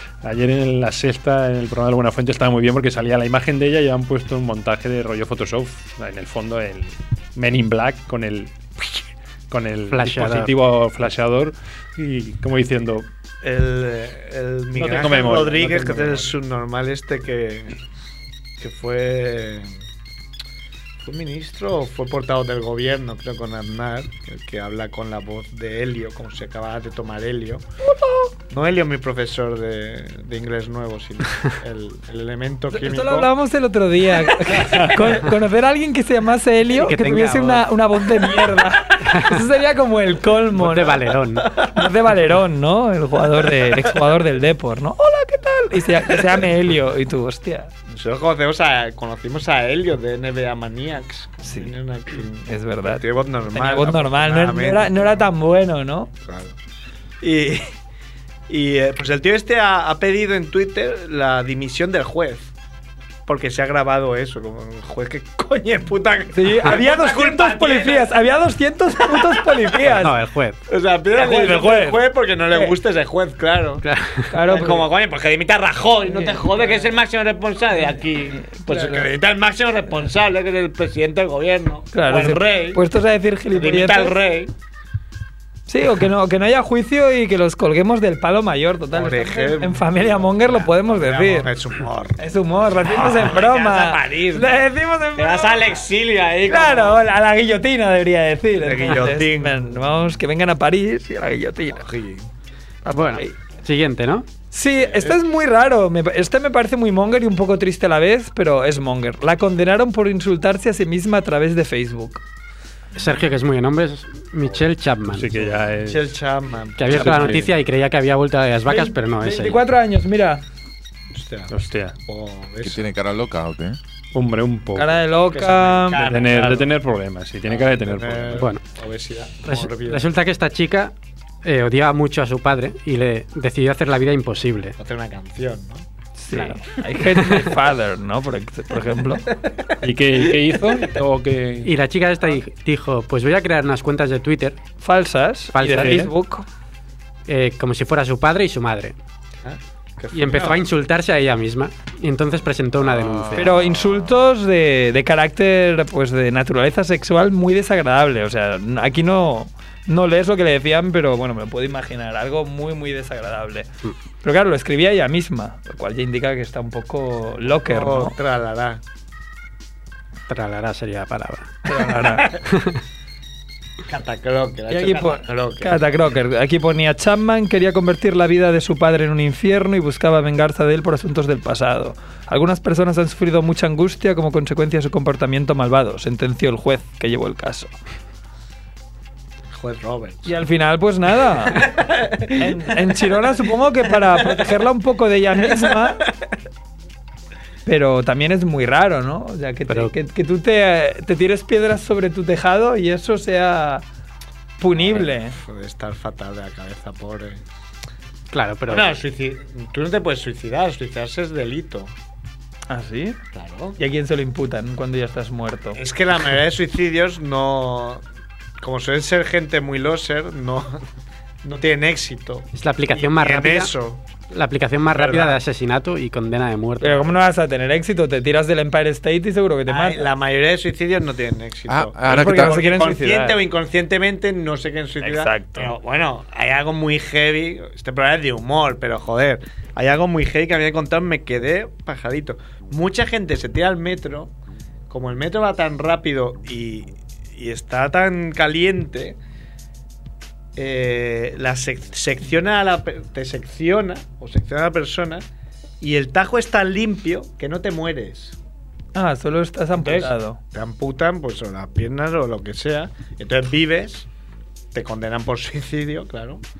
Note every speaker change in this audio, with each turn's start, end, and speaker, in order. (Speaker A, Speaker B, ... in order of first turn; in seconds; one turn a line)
Speaker A: 0.2-13.1
Speaker B: 9.9-10.6
Speaker C: 13.4-17.7
Speaker A: 14.7-16.3
Speaker C: 18.6-19.7
Speaker C: 21.0-27.6
Speaker C: 28.5-33.3
Speaker D: 32.7-47.7
Speaker C: 34.6-35.0
Speaker B: 36.7-37.6
Speaker B: 39.1-39.4
Speaker B: 40.5-41.5
Speaker C: 41.4-41.8
Speaker C: 43.5-43.9
Speaker C: 47.9-55.2
Speaker D: 51.5-51.7
Speaker D: 52.5-56.1
Speaker C: 56.2-56.5
Speaker C: 57.2-57.7
Speaker C: 58.5-62.5
Speaker C: 63.3-68.1
Speaker D: 66.3-70.1
Speaker B: 69.9-70.6
Speaker C: 70.7-73.8
Speaker D: 71.1-72.8
Speaker B: 73.8-74.3
Speaker D: 74.3-74.9
Speaker C: 74.5-82.8
Speaker D: 76.0-76.6
Speaker D: 78.5-79.1
Speaker D: 81.9-84.2
Speaker C: 83.5-84.5
Speaker D: 85.7-91.5
Speaker C: 88.9-92.3
Speaker D: 92.2-95.8
Speaker C: 92.8-94.5
Speaker C: 95.2-97.0
Speaker D: 96.5-101.8
Speaker C: 98.6-99.5
Speaker C: 101.7-102.3
Speaker D: 102.8-103.3
Speaker B: 102.9-104.3
Speaker D: 104.5-112.2
Speaker C: 104.8-105.2
Speaker B: 112.9-115.4
Speaker A: 115.1-116.1
Speaker C: 115.3-117.5
Speaker B: 116.8-119.6
Speaker A: 116.9-117.6
Speaker D: 118.7-120.4
Speaker C: 121.1-121.5
Speaker A: 121.5-121.9
Speaker C: 122.0-122.8
Speaker E: 122.6-123.8
Speaker A: 124.1-125.0
Speaker D: 124.8-126.1
Speaker C: 125.3-126.7
Speaker A: 126.0-128.5
Speaker C: 127.4-130.1
Speaker B: 128.3-128.6
Speaker B: 129.4-134.8
Speaker C: 134.8-135.8
Speaker D: 136.2-139.3
Speaker B: 136.3-136.7
Speaker A: 139.8-141.7
Speaker B: 141.6-144.6
Speaker D: 144.8-146.4
Speaker B: 145.5-146.1
Speaker A: 145.8-146.1
Speaker B: 147.3-148.9
Speaker C: 149.4-150.6
Speaker B: 150.1-153.5
Speaker E: 152.8-154.3
Speaker D: 153.3-163.7
Speaker D: 164.2-168.1
Speaker C: 167.6-168.8
Speaker B: 170.3-171.6
Speaker D: 171.7-172.3
Speaker C: 171.8-172.4
Speaker B: 172.5-172.8
Speaker C: 173.9-175.8
Speaker D: 174.7-187.7
Speaker C: 189.5-190.3
Speaker D: 190.2-191.7
Speaker C: 191.6-192.7
Speaker D: 192.3-196.0
Speaker C: 194.2-194.5
Speaker C: 195.5-196.1
Speaker D: 197.7-203.8
Speaker B: 199.7-199.9
Speaker D: 204.6-205.4
Speaker C: 204.7-207.4
Speaker B: 208.3-208.9
Speaker C: 208.7-211.9
Speaker D: 212.7-213.2
Speaker C: 213.3-213.8
Speaker D: 213.8-215.8
Speaker C: 215.7-218.0
Speaker C: 218.6-220.8
Speaker C: 221.4-224.0
Speaker B: 222.5-223.7
Speaker B: 224.3-227.1
Speaker C: 224.9-225.4
Speaker D: 226.8-230.1
Speaker C: 229.7-244.3
Speaker E: 231.7-232.6
Speaker D: 232.1-233.4
Speaker D: 235.0-235.7
Speaker C: 244.9-249.2
Speaker C: 250.6-255.2
Speaker C: 255.8-258.4
Speaker D: 258.9-260.4
Speaker C: 259.8-264.1
Speaker C: 264.7-266.4